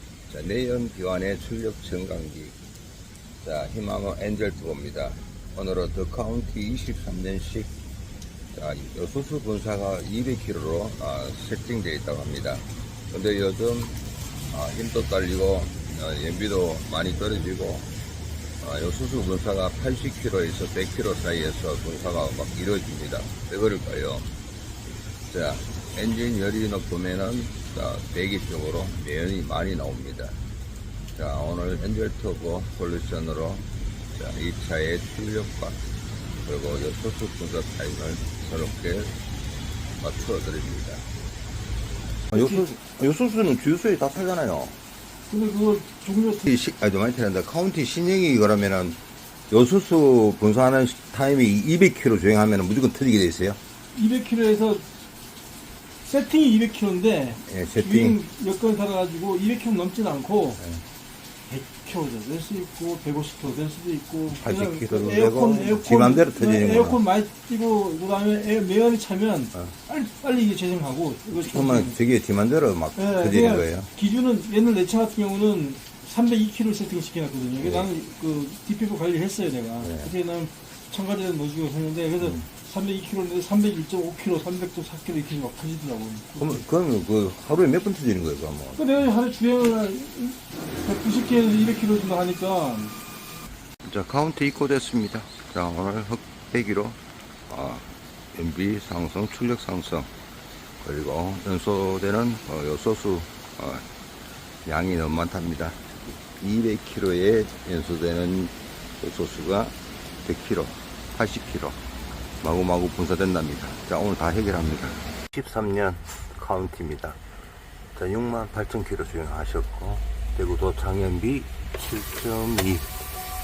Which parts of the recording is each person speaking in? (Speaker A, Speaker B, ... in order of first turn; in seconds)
Speaker A: 0.3-2.6, 3.4-7.7, 8.5-14.0, 14.5-17.9, 18.6-24.3, 25.3-30.4, 31.1-35.8, 36.5-39.1, 40.0-41.0, 42.3-44.8, 46.4-53.6, 57.5-58.2, 64.4-67.0, 71.3-73.9, 77.6-77.9, 79.8-80.1, 82.2-82.5, 86.4-88.8, 93.8-100.1, 100.8-103.8, 104.7-111.8, 112.4-117.2, 118.0-122.9
Speaker B: 42.3-42.7, 45.3-46.5, 54.0-54.9, 56.1-60.6, 61.5-72.0, 73.0-86.6, 88.8-93.0